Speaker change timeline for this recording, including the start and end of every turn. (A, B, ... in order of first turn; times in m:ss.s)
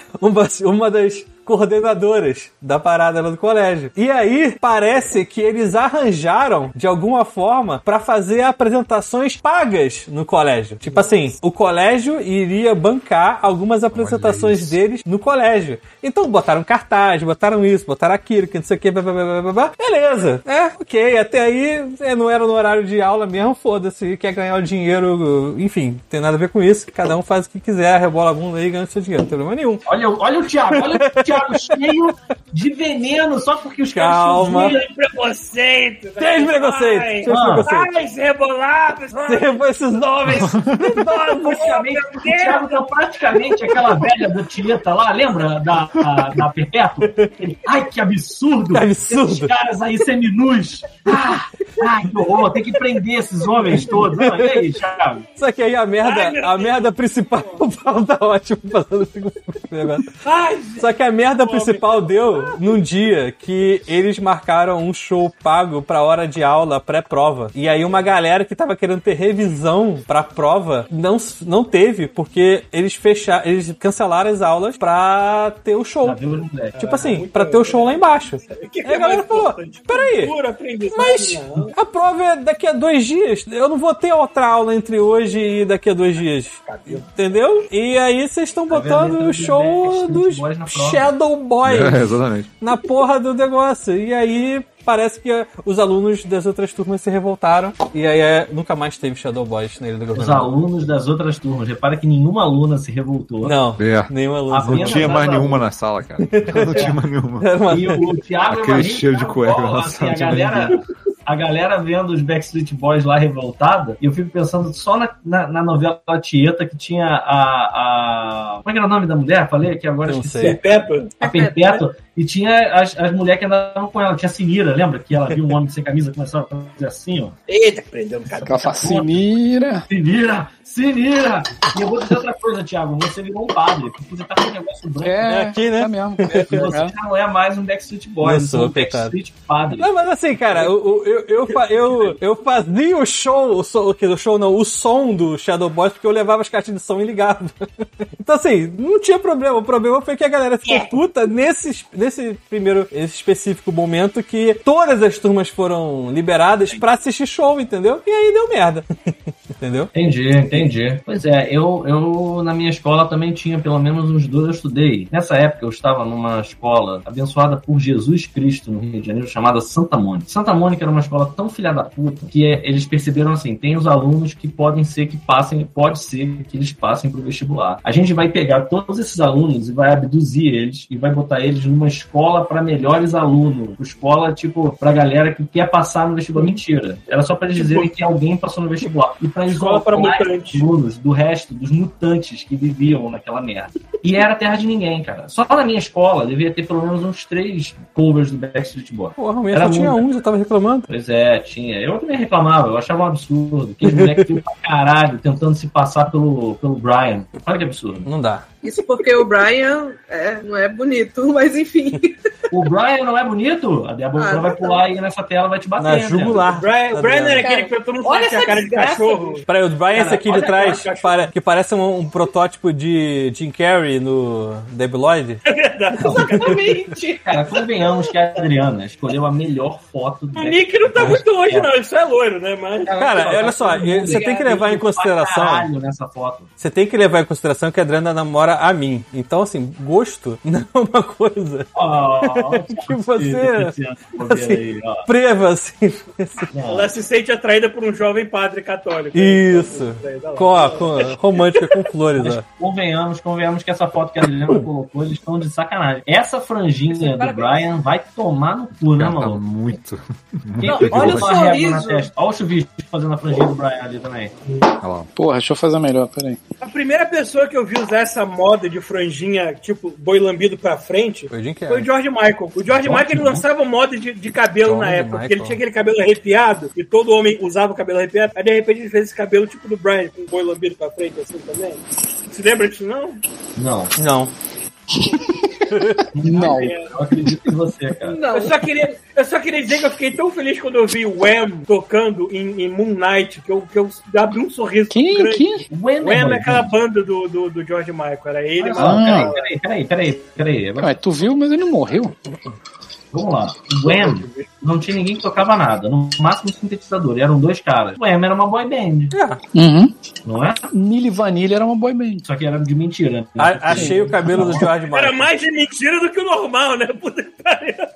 0:00.2-0:29.9 A
0:10.9-0:11.1 B
0:13.9-0:14.8 C
0:29.9-0:34.8 D
0:30.7-0:31.8 A
0:33.9-0:34.8 A
0:34.4-0:39.6 B
0:36.2-0:37.9 A
0:37.3-0:37.7 D
0:39.2-0:41.7 A
0:40.3-0:41.0 C
0:41.0-0:42.7 B
0:41.4-0:55.3 D
0:43.3-0:44.0 B
0:47.1-0:47.5 A
0:48.7-0:49.5 A
0:53.5-0:54.0 B
0:53.8-0:54.7 A
0:55.4-1:00.1 A
0:56.0-0:57.7 B
1:00.2-1:02.6 B
1:00.8-1:16.2 A
1:16.0-1:16.8 D
1:16.8-1:21.7 B
1:16.8-1:20.4 A
1:20.9-1:40.5 A
1:26.6-1:27.2 B
1:28.7-1:31.1 D
1:31.6-1:32.5 C
1:40.1-1:43.6 D
1:43.4-1:45.2 A
1:43.8-1:44.1 C
1:44.5-1:45.6 D
1:44.6-1:47.6 C
1:46.2-1:48.0 A
1:47.7-2:07.4 D
1:48.5-1:50.8 C
2:00.1-2:00.6 A
2:00.4-2:01.2 B
2:01.2-2:01.8 E
2:07.5-2:09.1 B
2:08.4-2:09.9 F
2:09.9-2:15.3 D
2:15.0-2:16.9 F
2:15.3-2:16.7 A
2:16.3-2:19.9 D
2:18.2-2:19.1 A
2:19.8-2:27.6 A
2:28.2-2:38.9 A
2:39.6-2:39.9 A
2:39.9-3:20.0 D
3:07.6-3:07.9 B
3:09.5-3:10.7 B
3:19.2-3:20.9 A
3:20.9-3:28.1 D
3:23.9-3:24.3 A
3:28.1-3:28.5 A
3:28.6-3:32.2 E
3:32.5-3:36.4 D
3:34.2-3:34.8 E
3:35.8-3:37.5 A
3:36.5-3:39.4 B
3:37.4-3:39.4 E
3:39.5-3:45.4 A
3:40.0-3:40.3 D
3:40.1-3:41.3 B
3:45.5-3:46.8 B
3:46.0-3:46.3 D
3:46.1-3:47.5 E
3:47.3-3:51.7 D
3:50.4-3:53.0 B
3:52.8-3:56.5 D
3:53.0-3:55.7 A
3:54.0-3:54.5 E
3:56.6-4:01.7 A
4:01.8-4:05.1 D
4:02.2-4:06.5 A
4:06.5-4:06.9 D
4:06.7-4:10.9 B
4:09.1-4:12.4 A
4:12.2-4:19.4 D
4:16.9-4:17.7 E
4:18.9-4:21.4 C
4:20.6-4:24.3 D
4:20.6-4:22.1 E
4:24.8-4:25.1 C
4:25.2-4:26.4 F
4:26.6-4:43.2 B
4:31.3-4:31.9 A
4:32.7-4:33.4 D
4:34.6-4:35.6 A
4:43.6-4:43.9 D
4:44.0-4:44.3 A
4:44.9-4:45.7 F
4:45.7-4:46.0 A
4:46.1-4:48.2 D
4:46.2-4:46.8 F
4:46.2-4:47.0 B
4:48.0-4:48.6 E
4:48.3-4:59.5 B
4:54.9-4:55.7 F
4:55.7-4:56.7 D
4:58.6-5:01.0 D
4:58.8-4:59.3 F
5:00.8-5:02.1 F
5:03.1-5:09.2 D
5:03.8-5:04.5 B
5:09.1-5:09.4 A
5:09.5-5:09.9 F
5:10.2-5:10.7 D
5:10.7-5:12.2 F
5:12.2-5:14.7 D
5:13.4-5:15.3 A
5:13.7-5:14.5 F
5:14.4-5:17.9 B